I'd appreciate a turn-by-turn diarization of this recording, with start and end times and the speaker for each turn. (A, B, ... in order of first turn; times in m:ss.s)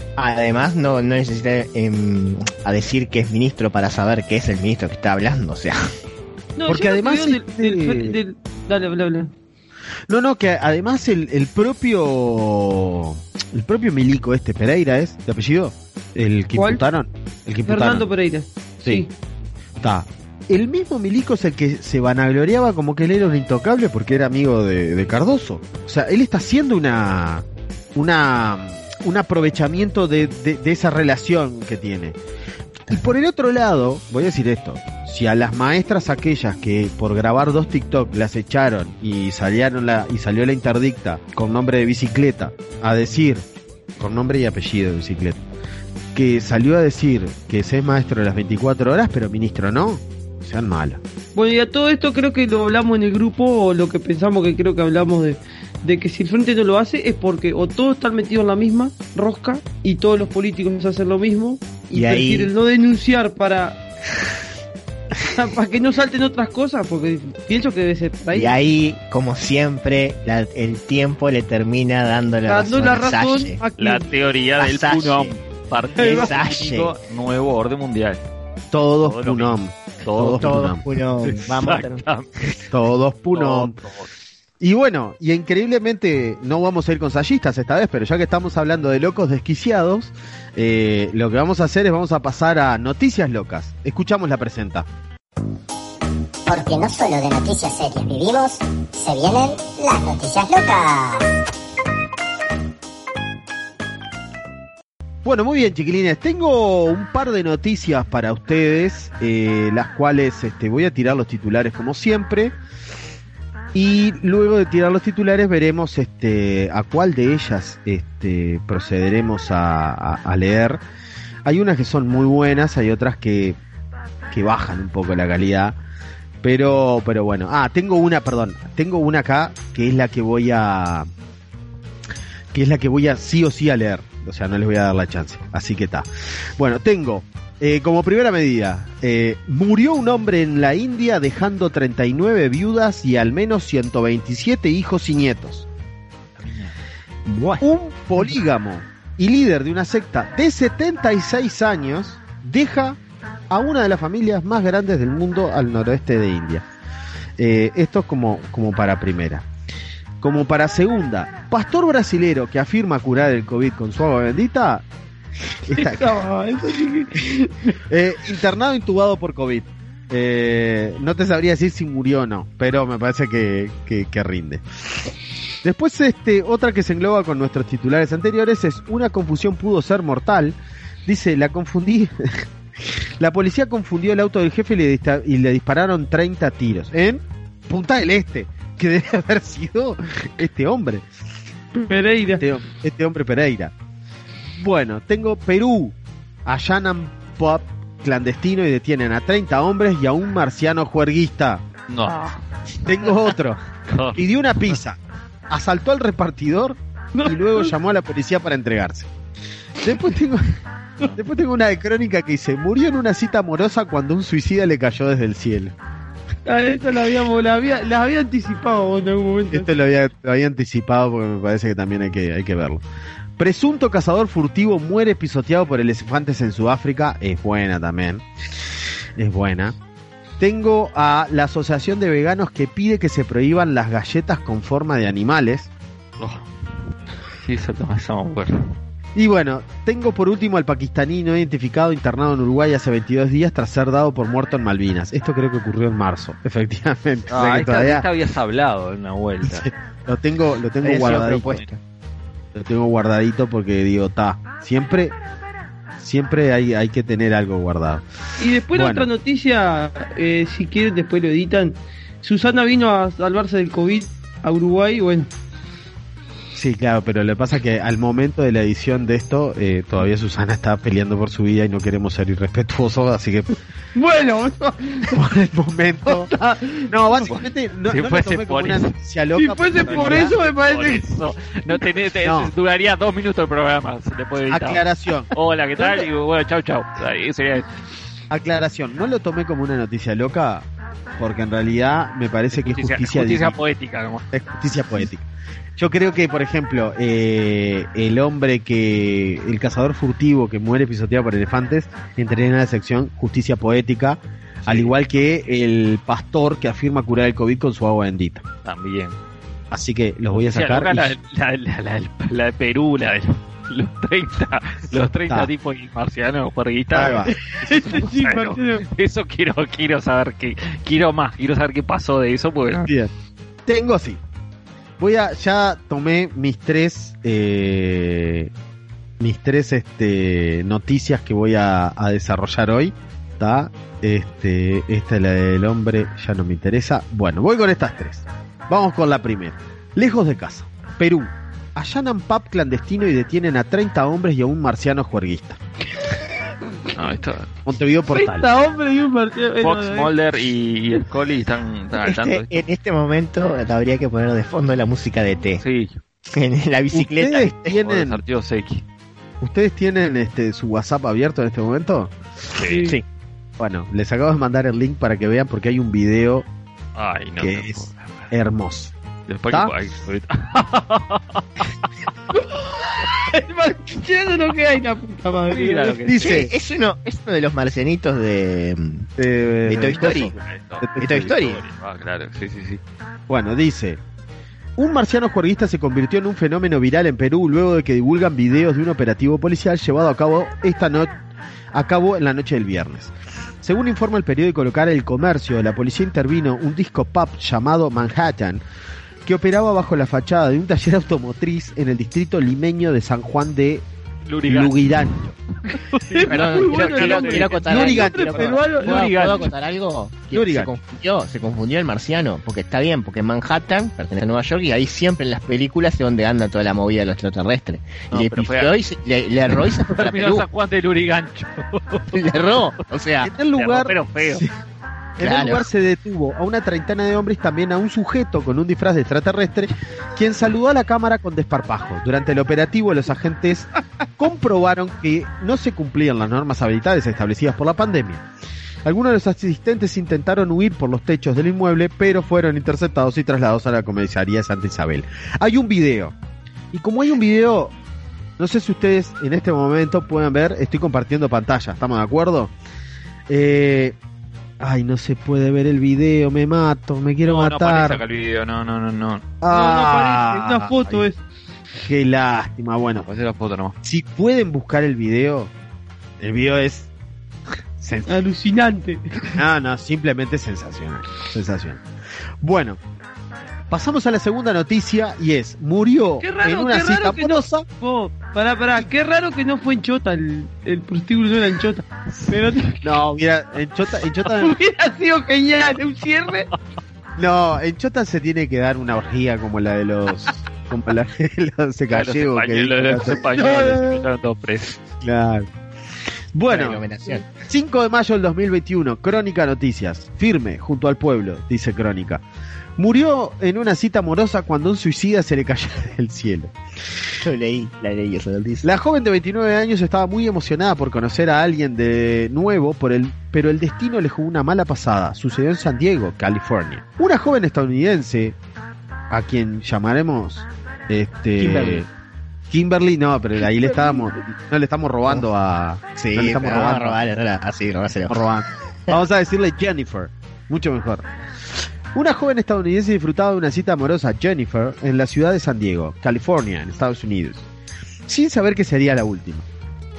0:00.2-0:05.8 A
0:06.6-0:09.3 B
0:06.7-0:08.2 C
0:10.1-0:18.1 C
0:16.5-0:16.8 B
0:17.6-0:19.1 B
0:19.8-0:32.2 C
0:32.9-0:43.4 C
0:44.0-0:45.4 C
0:46.1-0:51.0 C
0:51.4-1:03.8 B
1:01.9-1:02.5 A
1:05.2-1:08.6 B
1:08.3-1:13.6 A
1:12.5-1:14.1 B
1:13.8-1:18.2 D
1:14.6-1:15.3 A
1:16.0-1:16.3 B
1:16.0-1:16.9 A
1:18.7-1:20.8 C
1:19.0-1:22.6 D
1:20.2-1:22.0 A
1:22.7-1:23.7 C
1:23.3-1:24.1 D
1:24.6-1:34.9 C
1:36.5-1:41.3 E
1:45.2-1:52.5 C
1:53.7-2:00.8 C
2:01.4-2:03.6 C
2:04.3-2:05.8 C
2:06.4-2:11.1 C
2:12.5-2:16.1 C
2:16.6-2:25.6 C
2:26.4-2:26.7 D
2:27.2-2:27.6 A
2:27.6-2:33.0 C
2:33.5-2:36.6 C
2:37.4-2:39.4 C
2:40.2-2:44.8 C
2:45.7-2:46.2 C
2:45.7-2:47.8 B
2:47.9-2:54.6 C
2:55.6-3:02.4 C
3:03.2-3:11.0 C
3:11.8-3:12.4 B
3:12.3-3:13.7 C
3:14.6-3:15.9 C
3:16.4-3:21.6 C
3:21.9-3:22.4 D
3:22.8-3:23.6 C
3:23.0-3:23.3 D
3:23.9-3:24.8 D
3:24.2-3:25.0 C
3:25.5-3:29.1 C
3:27.1-3:27.7 B
3:29.8-3:30.6 C
3:31.1-3:35.7 C
3:36.4-3:39.7 B
3:39.5-3:42.8 C
3:43.4-3:48.2 C
3:49.2-3:49.8 C
3:50.4-3:55.7 C
3:56.2-3:56.5 D
3:57.4-3:58.5 D
3:59.2-4:08.0 C
4:07.3-4:09.7 D
4:09.4-4:11.6 C
4:10.8-4:11.8 A
4:10.9-4:11.6 D
4:12.5-4:15.1 C
4:16.0-4:18.0 C
4:18.4-4:25.3 B
4:18.7-4:19.1 C
4:26.5-4:33.5 C
4:33.9-4:35.2 B
4:35.1-4:36.3 C
4:36.1-4:36.9 B
4:36.9-4:40.3 C
4:37.2-4:38.9 D
4:39.3-4:41.0 B
4:39.8-4:47.7 D
4:42.2-4:42.5 C
4:44.5-4:46.1 C
4:48.3-4:53.6 C
4:52.5-4:54.2 D
4:54.3-4:55.2 C
4:55.8-5:08.4 C
5:04.6-5:04.9 D
5:08.6-5:09.2 D
5:09.7-5:11.1 C
5:10.3-5:22.9 D
5:16.9-5:17.4 C
5:17.4-5:18.8 B
5:22.8-5:23.1 C
5:23.6-5:24.2 C
5:25.0-5:28.5 C
5:29.2-5:45.6 C
5:46.9-5:47.5 D
5:47.6-5:48.5 C
5:48.1-5:50.1 B
5:49.6-5:52.6 D
5:52.0-5:55.6 A
5:55.6-5:56.0 D
5:56.3-5:57.8 A
5:56.9-5:58.2 C
5:57.7-5:58.8 D
5:59.4-6:02.1 C
6:02.5-6:02.9 D
6:02.6-6:03.0 B
6:03.6-6:06.4 C
6:07.0-6:08.3 D
6:07.4-6:08.9 C
6:09.3-6:11.9 D
6:12.3-6:16.0 B
6:15.5-6:16.4 D
6:16.0-6:16.5 C
6:16.2-6:19.1 A
6:19.2-6:21.4 C
6:19.6-6:20.3 A
6:19.8-6:22.8 D
6:21.0-6:21.6 A
6:23.3-6:24.0 C
6:24.8-6:31.1 C
6:31.7-6:38.6 C
6:39.2-6:43.8 C
6:44.3-6:45.2 D
6:44.5-6:45.4 C
6:45.7-6:49.5 D
6:46.1-6:49.2 B
6:46.2-7:00.4 A
6:47.7-6:48.5 C
6:50.3-6:50.7 C
6:58.1-6:58.7 D
6:59.9-7:02.6 D
7:02.1-7:03.3 A
7:03.2-7:04.5 C
7:03.6-7:04.4 D
7:05.2-7:05.6 A
7:05.2-7:18.2 C
7:18.8-7:26.1 C
7:26.7-7:27.7 C
7:28.4-7:32.5 C
7:33.3-7:34.0 C
7:34.6-7:38.0 C
7:37.2-7:39.2 D
7:39.4-7:41.0 C
7:39.5-7:41.2 B
7:41.8-7:43.0 C
7:43.0-7:43.7 D
7:43.8-7:45.5 C
7:46.2-7:46.9 C
7:47.8-7:48.2 C
7:48.1-7:49.4 B
7:49.3-7:51.8 C
7:52.4-7:52.8 C
7:53.7-7:57.6 C
7:56.2-8:02.8 B
8:02.1-8:02.5 D
8:02.8-8:04.5 C
8:04.4-8:06.5 B
8:07.2-8:13.2 C
8:11.9-8:14.8 D
8:13.4-8:13.9 B
8:15.0-8:15.5 C
8:16.3-8:16.8 C
8:16.5-8:17.4 A
8:17.4-8:22.2 C
8:22.8-8:26.5 C
8:27.2-8:28.7 A
8:28.6-8:38.4 C
8:39.1-8:41.9 C
8:41.4-8:41.8 A
8:42.5-8:47.0 C
8:43.6-8:44.0 B
8:46.0-8:48.3 A
8:48.1-8:51.1 C
8:51.9-8:57.4 C
8:58.1-8:59.4 C